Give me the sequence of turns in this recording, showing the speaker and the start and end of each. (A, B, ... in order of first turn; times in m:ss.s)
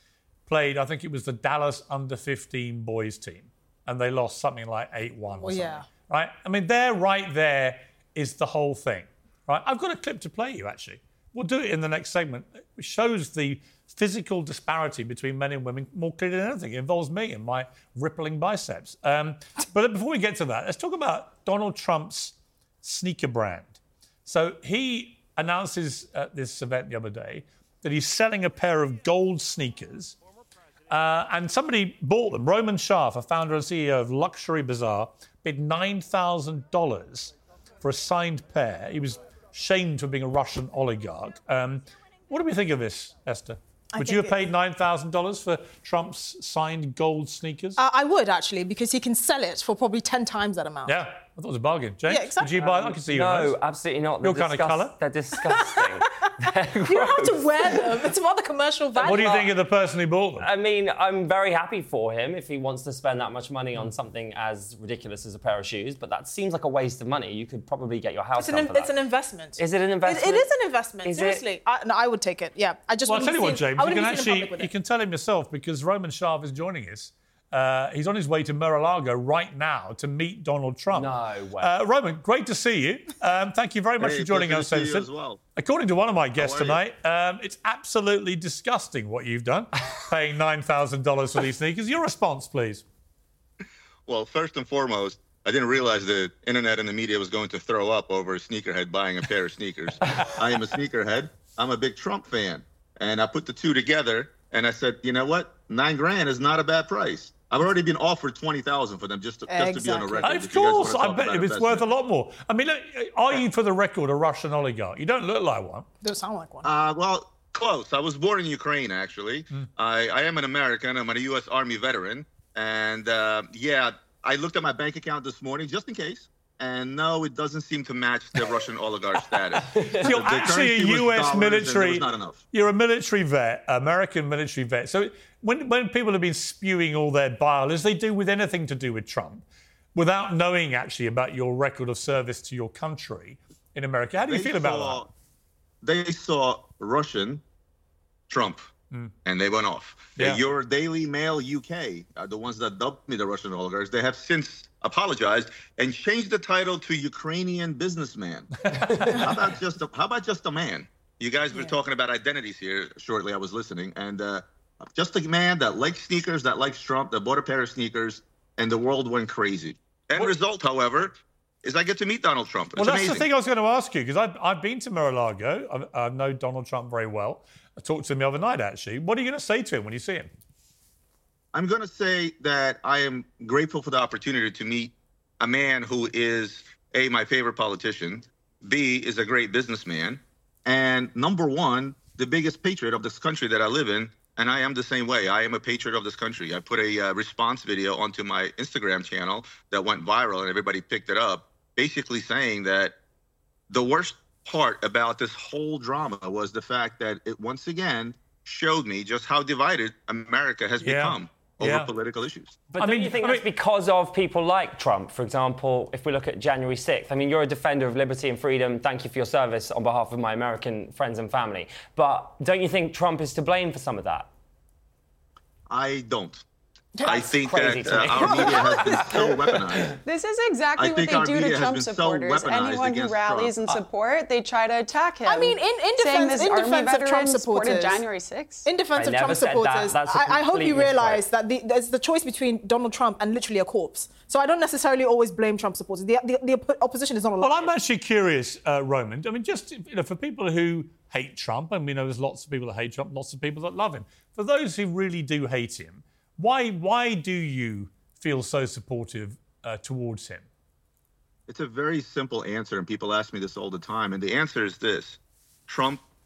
0:00.5-0:30.2 A
0:05.4-0:05.8 B
0:30.9-0:47.8 A
0:43.9-0:44.5 B
0:47.8-0:51.0 B
0:50.8-0:53.6 A
0:52.1-0:52.8 B
0:52.7-0:57.8 C
0:54.2-0:54.9 A
0:56.8-0:59.5 B
0:59.0-0:59.5 C
0:59.0-1:00.5 A
1:00.4-1:08.9 C
1:08.3-1:14.7 B
1:09.6-1:10.5 C
1:11.0-1:11.4 C
1:13.1-1:32.8 A
1:20.9-1:21.7 C
1:24.0-1:25.4 D
1:26.4-1:26.8 D
1:34.1-1:51.8 D
1:49.5-1:50.4 B
1:50.2-1:55.9 A
1:56.0-1:56.7 B
1:56.6-2:12.4 D
2:09.7-2:19.4 A
2:09.7-2:10.1 C
2:19.9-2:25.0 A
2:24.2-2:25.1 D
2:25.8-2:27.4 D
2:28.3-2:28.6 D
2:29.2-2:38.5 D
2:30.2-2:30.4 A
2:38.6-2:39.3 A
2:39.1-2:53.3 D
2:52.8-3:00.3 A
3:01.5-3:22.9 D
3:23.7-3:32.6 D
3:30.8-3:31.9 A
3:32.7-3:33.4 A
3:32.7-3:44.3 C
3:45.7-3:46.4 D
3:47.0-3:47.2 B
3:47.0-3:49.9 D
3:47.1-3:49.9 C
3:48.2-3:49.2 B
3:50.0-3:58.6 E
3:50.8-3:53.6 D
3:55.2-3:58.0 B
3:58.6-4:07.7 B
3:59.0-4:01.2 C
4:07.4-4:20.4 A
4:21.5-4:26.0 D